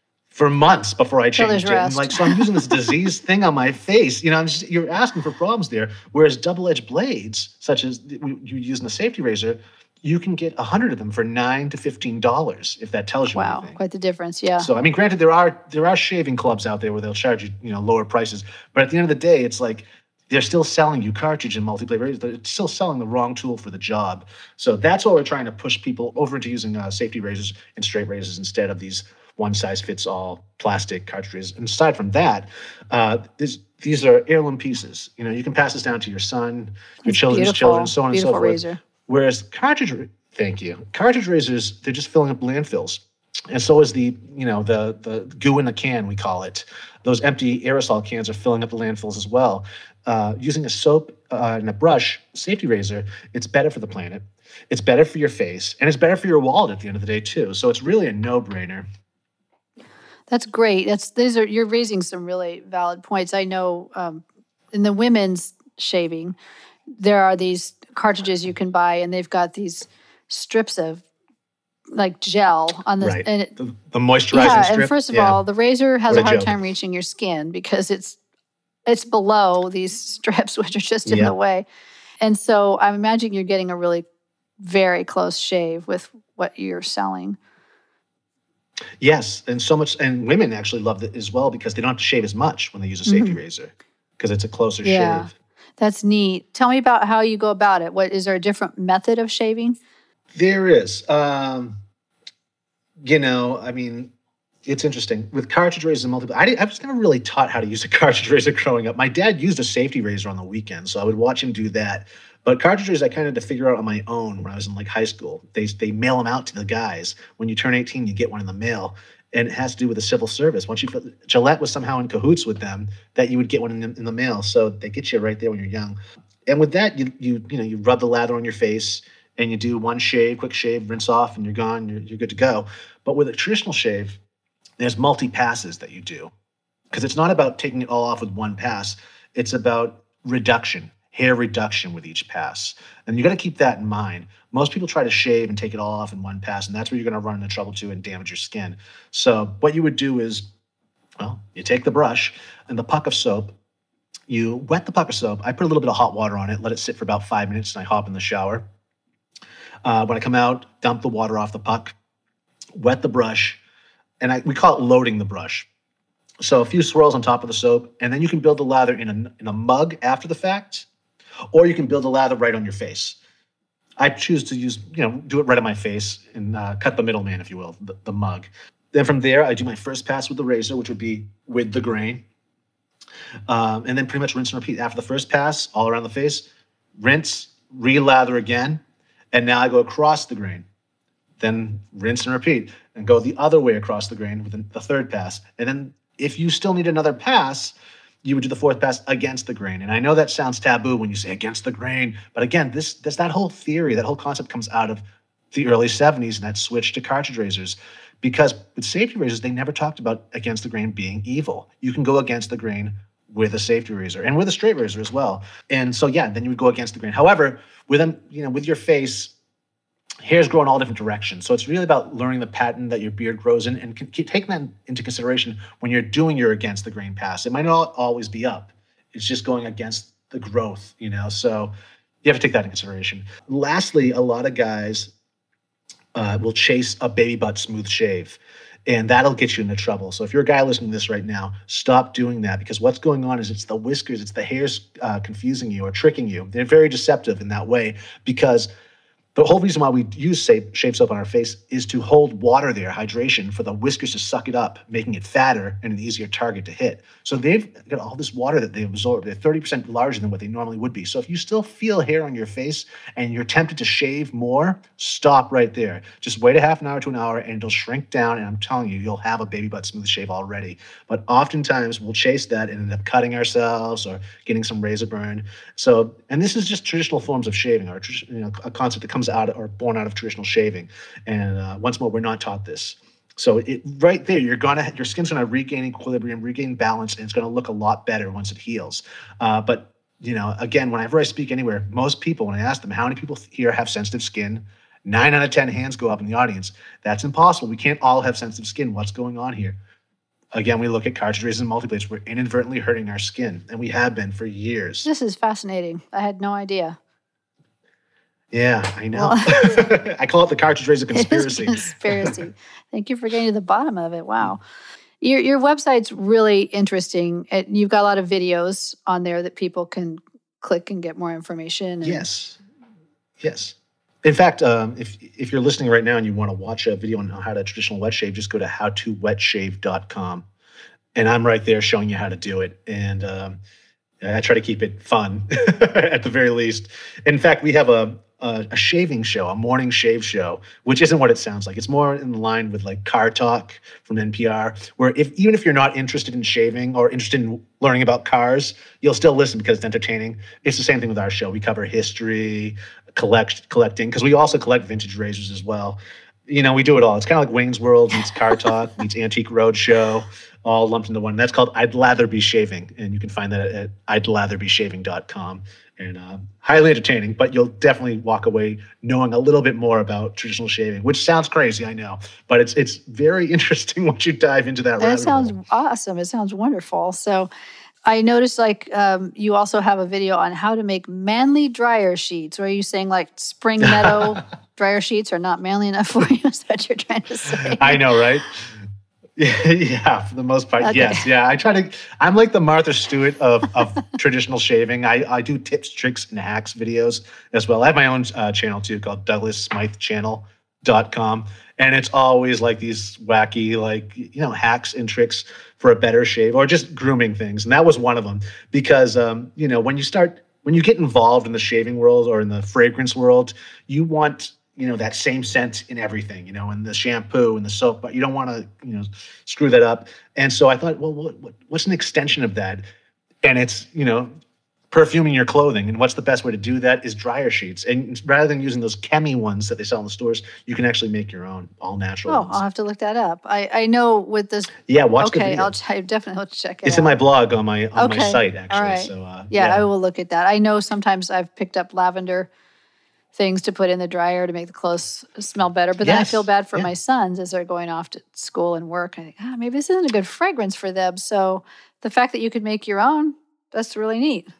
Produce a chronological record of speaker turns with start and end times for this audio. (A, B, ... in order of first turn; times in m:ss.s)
0:00.3-0:13.8 A
0:01.4-0:02.9 B
0:13.3-0:14.7 B
0:14.6-0:58.9 A
0:37.0-0:38.8 B
1:00.3-1:06.4 B
1:07.0-1:11.0 B
1:11.9-1:13.5 B
1:13.0-1:15.4 A
1:14.3-1:18.2 B
1:16.1-1:16.6 A
1:18.9-1:21.6 B
1:21.0-1:21.4 A
1:22.2-1:24.0 B
1:24.6-1:27.4 B
1:29.0-1:35.3 A
1:33.0-1:33.4 B
1:34.8-1:39.8 B
1:40.3-1:41.8 A
1:43.0-1:44.1 A
1:44.6-2:14.2 A
2:14.8-2:16.3 A
2:16.9-2:30.5 A
2:31.2-2:33.6 A
2:34.3-2:38.6 A
2:39.8-2:41.9 A
2:42.8-2:43.6 A
2:44.2-2:45.7 A
2:46.4-2:50.9 A
2:51.5-2:53.2 A
2:54.0-3:02.2 A
3:03.5-3:08.8 A
3:09.3-3:10.6 A
3:11.4-3:39.4 A
3:40.2-3:51.7 A
3:52.2-3:55.1 A
3:56.1-4:08.7 A
4:09.4-4:59.8 A
5:00.5-5:05.1 A
5:05.0-5:07.0 B
5:08.5-5:12.3 A
5:09.1-5:09.9 B
5:11.1-5:14.6 B
5:15.2-5:22.3 B
5:22.0-5:22.6 A
5:23.4-5:30.5 A
5:31.1-5:33.6 A
5:34.2-6:15.5 A
6:15.0-6:17.5 B
6:18.1-6:28.1 B
6:23.8-6:24.4 A
6:27.6-6:28.6 A
6:29.4-7:02.8 A
6:30.8-6:31.2 B
7:03.4-7:04.3 A
7:04.9-7:12.6 A
7:12.3-7:17.1 B
7:14.9-7:15.7 A
7:16.8-7:19.9 A
7:18.0-7:22.5 B
7:23.3-7:34.5 B
7:26.0-7:26.9 A